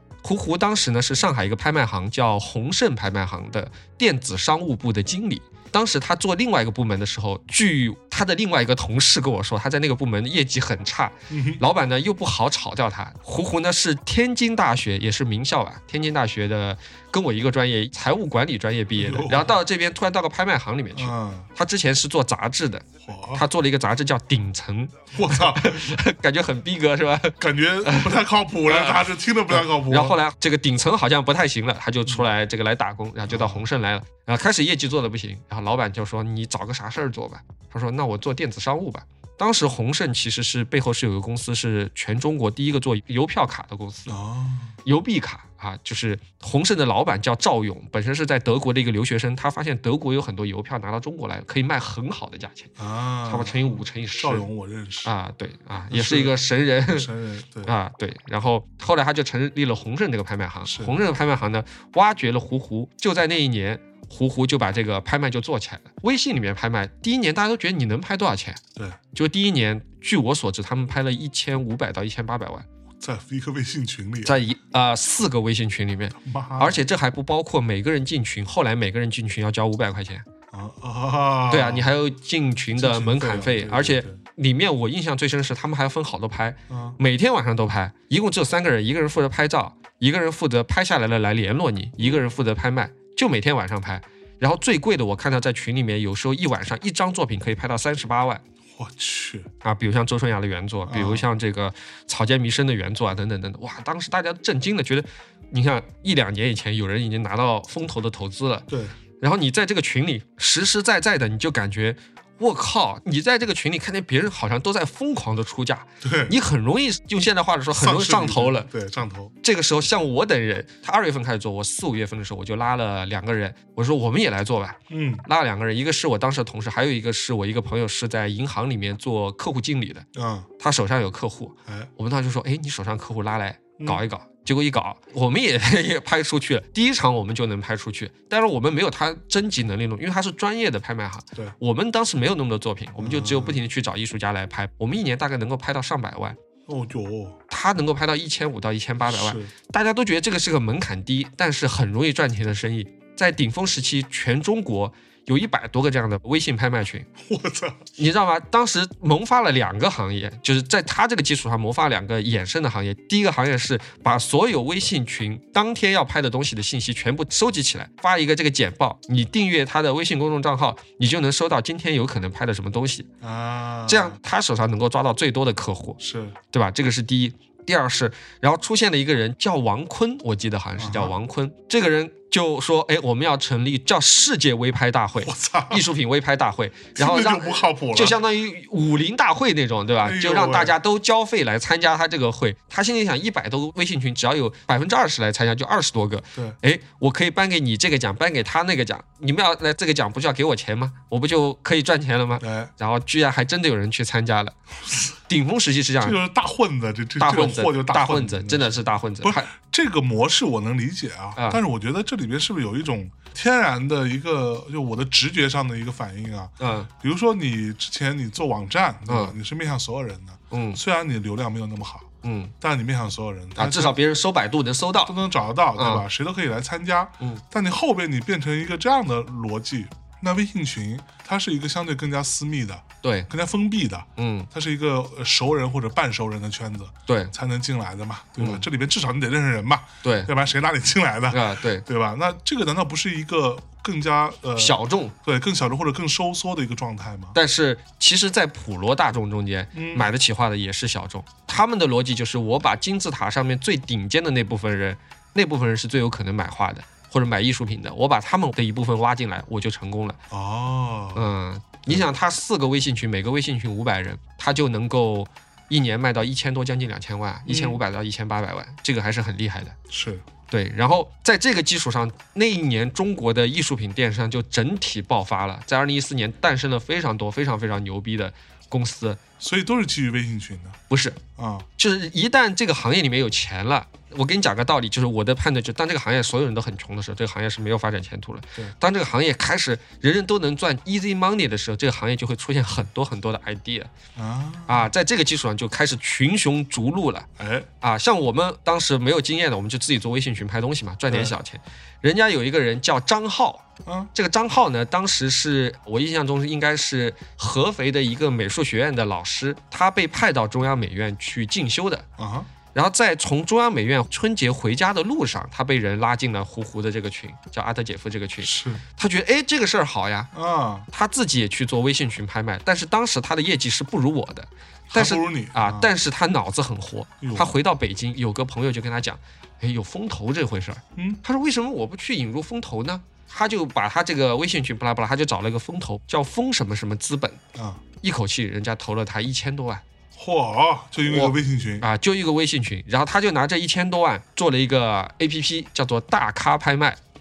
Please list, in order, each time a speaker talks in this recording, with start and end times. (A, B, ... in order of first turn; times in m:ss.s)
0:00.2-0:22.8 A
0:11.3-0:11.6 B
0:19.0-0:19.6 B
0:21.0-0:21.5 B
0:23.0-0:23.4 B
0:23.4-0:44.2 A
0:25.1-0:25.8 B
0:27.4-0:30.2 B
0:33.3-0:33.7 B
0:44.1-0:44.8 B
0:44.9-0:52.7 A
0:52.8-0:53.6 B
0:53.3-0:54.4 A
0:54.2-0:55.1 B
0:55.0-0:57.1 A
0:55.9-0:56.4 B
0:56.9-0:57.7 B
0:57.6-1:08.6 A
1:00.7-1:01.0 B
1:09.2-1:12.6 A
1:13.0-1:14.4 B
1:14.2-1:20.2 A
1:16.2-1:16.8 B
1:20.5-1:21.9 B
1:21.5-1:38.4 A
1:22.8-1:24.2 B
1:26.7-1:27.0 B
1:38.8-1:39.5 B
1:39.6-1:48.7 A
1:40.9-1:41.3 B
1:48.7-1:48.9 B
1:49.2-1:58.7 A
1:56.0-1:56.3 B
1:57.8-1:59.3 B
1:59.4-2:10.0 A
2:04.9-2:05.2 B
2:10.1-2:10.5 B
2:10.6-2:26.4 A
2:23.0-2:23.6 B
2:26.7-2:27.4 B
2:27.5-2:37.1 A
2:29.1-2:29.5 B
2:37.2-2:37.8 B
2:38.0-2:53.1 A
2:53.2-2:54.2 B
2:53.9-2:56.0 A
2:56.0-2:56.4 B
2:56.5-3:24.6 A
3:00.8-3:01.1 B
3:05.2-3:05.8 B
3:07.0-3:08.2 B
3:10.0-3:10.7 B
3:22.4-3:22.7 B
3:25.3-3:26.2 A
3:26.0-3:42.1 B
3:27.2-3:29.5 A
3:36.6-3:36.9 A
3:39.1-3:39.3 A
3:40.5-3:40.8 A
3:42.2-3:42.5 A
3:42.6-3:44.0 B
3:43.6-3:45.1 A
3:45.1-4:07.4 B
3:45.8-3:46.0 A
3:53.0-3:53.3 A
3:54.2-3:54.5 A
3:57.1-3:57.3 A
3:58.4-3:58.6 A
4:00.0-4:00.3 A
4:01.3-4:01.8 A
4:04.6-4:05.1 A
4:07.4-4:20.2 A
4:09.7-4:10.1 B
4:20.3-4:21.3 B
4:21.1-4:29.8 A
4:27.5-4:27.8 B
4:29.9-4:30.2 B
4:30.5-4:39.2 A
4:39.4-4:40.8 B
4:40.9-4:41.2 A
4:41.4-4:41.7 B
4:41.8-4:53.9 A
4:54.2-4:54.9 B
4:54.7-4:57.3 A
4:57.4-4:57.7 B
4:57.8-5:12.0 A
5:01.1-5:01.4 B
5:03.9-5:04.1 B
5:12.2-5:12.5 B
5:12.7-5:20.3 A
5:18.4-5:18.8 B
5:20.3-5:20.9 B
5:20.9-5:37.4 A
5:24.9-5:25.9 B
5:27.2-5:27.5 B
5:31.0-5:31.2 B
5:37.6-5:37.8 B
5:38.0-5:39.8 A
5:40.2-5:41.8 B
5:41.1-5:47.0 A